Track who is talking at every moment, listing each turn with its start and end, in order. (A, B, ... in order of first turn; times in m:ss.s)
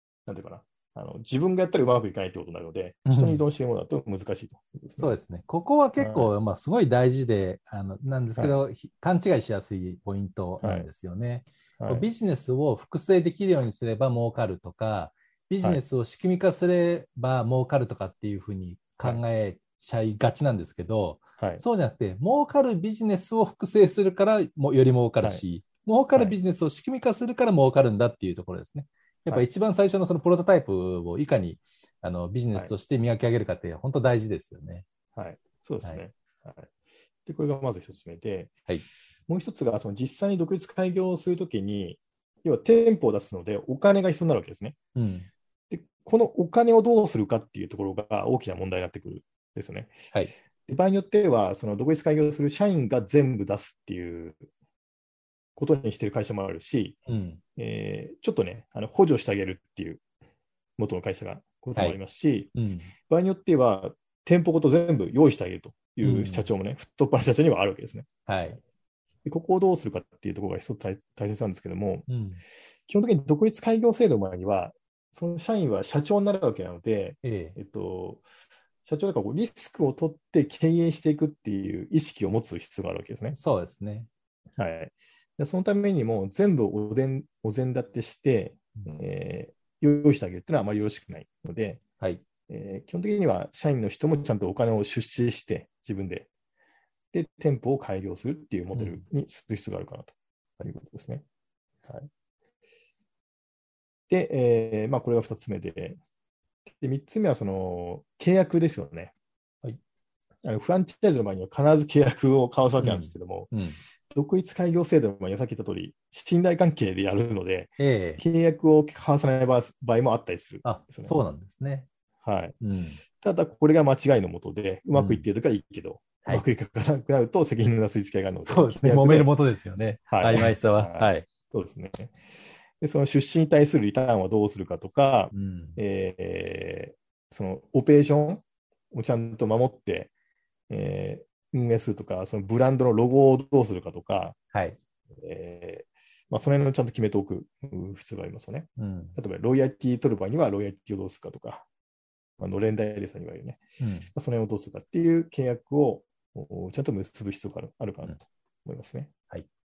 0:00.2-0:05.1 A
0:03.1-0:03.4 B
0:05.0-0:34.8 B
0:06.0-0:06.3 A
0:08.4-0:08.6 A
0:10.6-0:10.9 A
0:11.8-0:12.1 A
0:21.4-0:21.6 A
0:35.1-0:36.7 A
0:37.2-0:38.5 A
0:39.3-0:44.8 A
0:45.0-0:45.3 B
0:45.7-0:50.0 A
0:50.6-0:54.4 A
0:55.6-0:57.0 A
0:57.1-0:57.4 B
0:57.6-1:00.0 A
1:00.8-1:02.5 A
1:02.5-1:02.9 B
1:03.1-1:08.1 A
1:06.0-1:06.5 B
1:08.3-1:08.6 B
1:09.2-1:12.0 A
1:12.1-1:12.4 B
1:12.9-1:18.2 A
1:17.2-1:17.6 B
1:18.8-1:23.4 A
1:23.3-1:24.1 B
1:24.6-1:31.8 A
1:32.5-1:36.3 A
1:37.1-1:41.2 A
1:38.7-1:39.0 B
1:44.1-1:46.0 A
1:46.8-1:49.1 A
1:50.4-1:53.5 A
1:52.8-1:53.8 B
1:54.1-2:01.2 A
1:57.8-1:58.2 B
2:00.6-2:01.9 B
2:02.2-2:02.6 A
2:02.6-2:03.0 B
2:03.2-2:09.3 A
2:04.9-2:05.2 B
2:08.4-2:11.3 B
2:10.1-2:12.2 A
2:12.8-2:20.1 A
2:15.3-2:15.8 B
2:20.7-2:24.4 A
2:24.5-2:24.8 B
2:25.2-2:31.6 A
2:28.8-2:29.2 B
2:32.4-2:33.6 A
2:33.8-2:34.1 B
2:34.1-2:39.1 A